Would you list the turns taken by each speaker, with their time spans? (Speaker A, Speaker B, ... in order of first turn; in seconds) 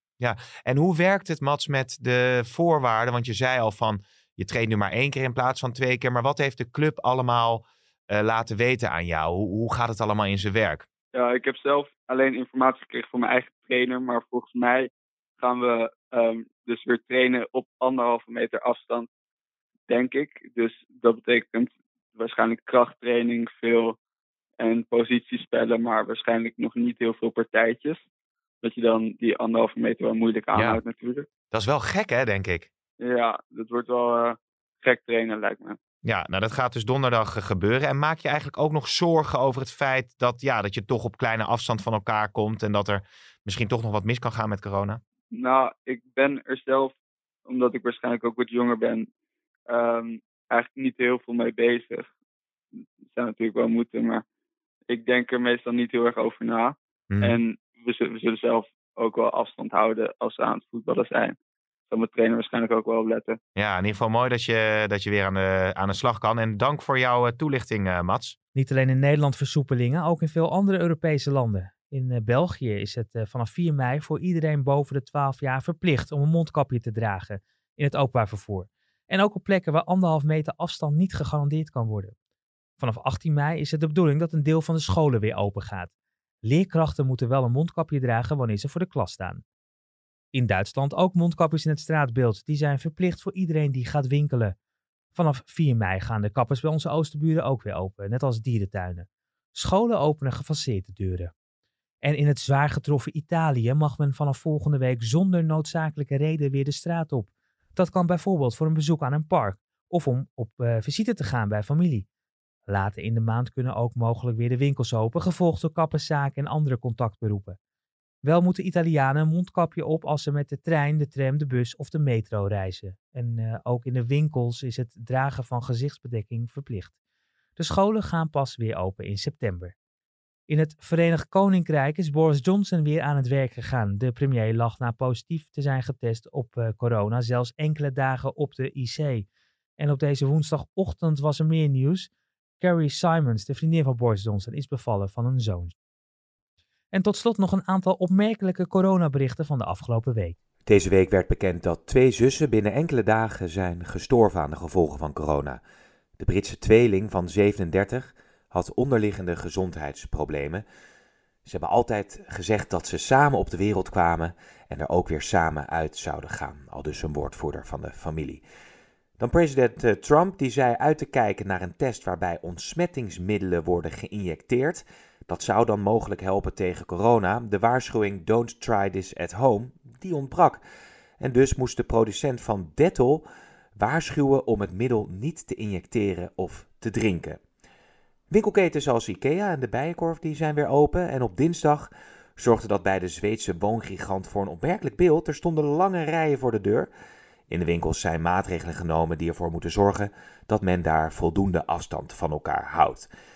Speaker A: 0.2-10.8, 31.5-32.7, 36.0-45.0, 57.1-57.4, 63.6-68.4, 150.7-155.6, 156.2-160.6, 161.4-168.4, 169.2-180.6, 181.2-187.4, 188.3-196.9, 197.5-203.1
Speaker B: 11.1-19.1, 19.9-24.0, 24.6-28.0, 28.6-31.3, 33.0-35.8, 45.3-46.9, 47.5-49.1, 49.7-52.1, 53.0-54.2, 54.9-61.4, 61.9-63.4
Speaker C: 68.5-82.2, 82.8-85.9, 86.4-89.4, 90.3-94.5, 95.1-101.3, 102.0-112.1, 112.7-117.6, 118.2-126.9, 127.6-129.7, 130.5-139.3, 139.8-142.1, 142.6-145.7, 146.9-150.4